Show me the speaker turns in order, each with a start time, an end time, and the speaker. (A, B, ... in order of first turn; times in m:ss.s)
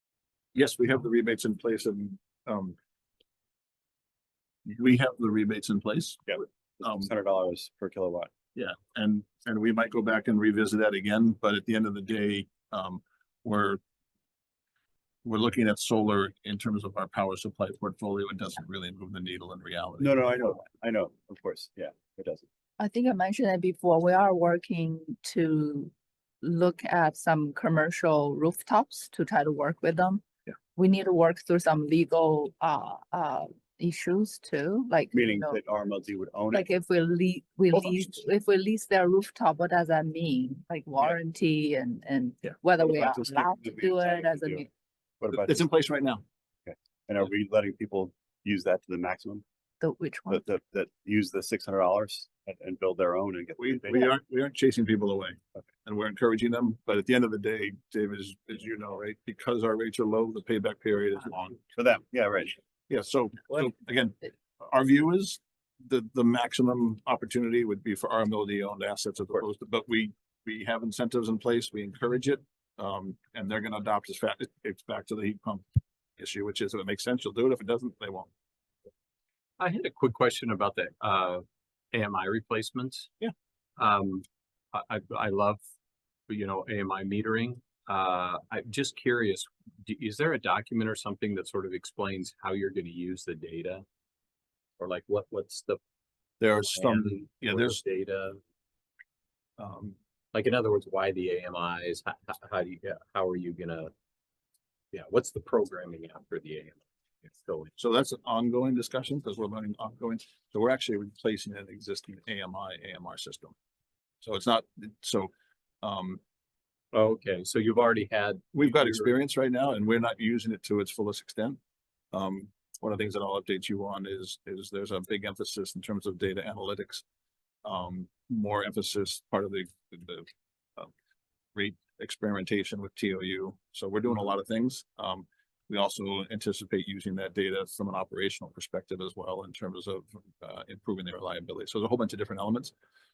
0:00.5-0:02.8 A
0:04.6-0:07.1 A
0:06.3-0:08.3 B
0:08.6-0:13.8 A
0:15.2-0:20.2 A
0:20.0-0:22.5 B
0:22.8-0:30.2 C
0:30.8-0:35.6 C
0:35.1-0:36.7 B
0:36.5-0:44.7 C
0:37.7-0:38.0 A
0:42.8-0:44.7 B
0:45.2-0:45.6 B
0:45.3-0:46.2 A
0:46.7-0:49.4 B
0:49.8-0:50.4 C
0:50.3-0:54.1 B
0:53.6-1:01.6 A
1:01.8-1:02.6 B
1:02.9-1:15.7 A
1:16.2-1:18.3 A
1:19.6-1:23.1 D
1:23.8-1:25.6 D
1:26.3-1:33.8 D
1:34.8-1:35.8 D
1:36.4-1:37.8 A
1:36.5-1:38.4 D
1:39.6-1:40.0 A
1:40.3-1:43.9 D
1:44.9-1:47.7 D
1:47.8-1:53.5 A
1:54.2-1:55.3 A
1:55.8-1:56.2 A
1:56.9-1:59.1 D
1:58.5-2:01.6 A
2:02.1-2:07.0 A
2:07.6-2:10.9 A
2:11.6-2:22.7 A